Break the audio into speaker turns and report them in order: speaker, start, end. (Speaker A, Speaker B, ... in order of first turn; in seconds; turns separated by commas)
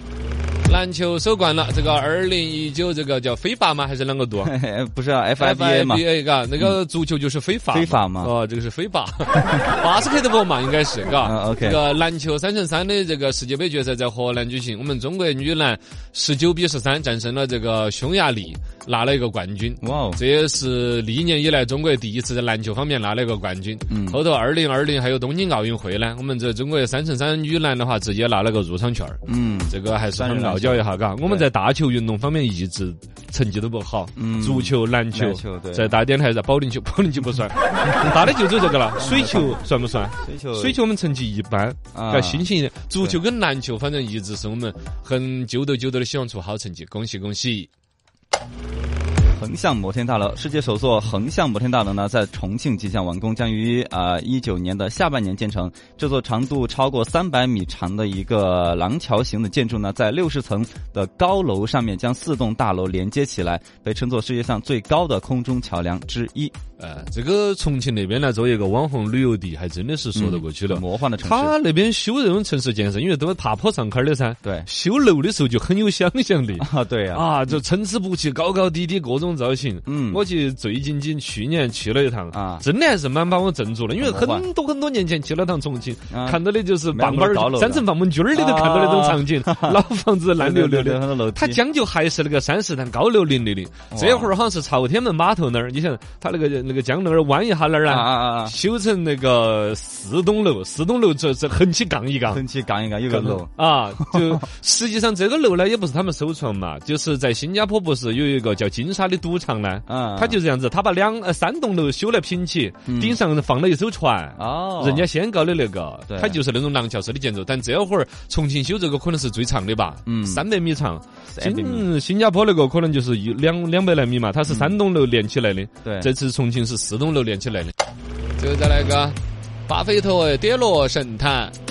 Speaker A: 0.6-4.5, Speaker B: 4.4-6.0, Speaker A: 5.4-47.7, Speaker B: 7.7-8.3, Speaker B: 11.2-11.8, Speaker B: 19.8-20.2, Speaker B: 23.9-24.2, Speaker B: 29.2-31.5, Speaker B: 34.1-36.0, Speaker B: 39.0-39.6, Speaker B: 40.2-40.8, Speaker B: 41.9-42.4, Speaker B: 49.4-66.5, Speaker A: 66.8-102.4, Speaker B: 70.1-71.5, Speaker B: 76.6-77.6, Speaker B: 79.8-80.2, Speaker B: 82.3-82.6, Speaker B: 84.0-84.4, Speaker B: 86.1-86.4, Speaker B: 86.9-89.8, Speaker B: 90.4-91.6, Speaker B: 93.9-94.3, Speaker B: 97.9-98.5, Speaker B: 102.3-104.4, Speaker A: 103.1-127.7, Speaker B: 109.9-110.4, Speaker B: 112.9-113.2, Speaker B: 114.4-115.1, Speaker B: 116.1-116.4, Speaker B: 120.0-120.4, Speaker B: 121.3-121.9, Speaker B: 124.5-124.8, Speaker B: 125.8-126.1, Speaker A: 128.4-131.5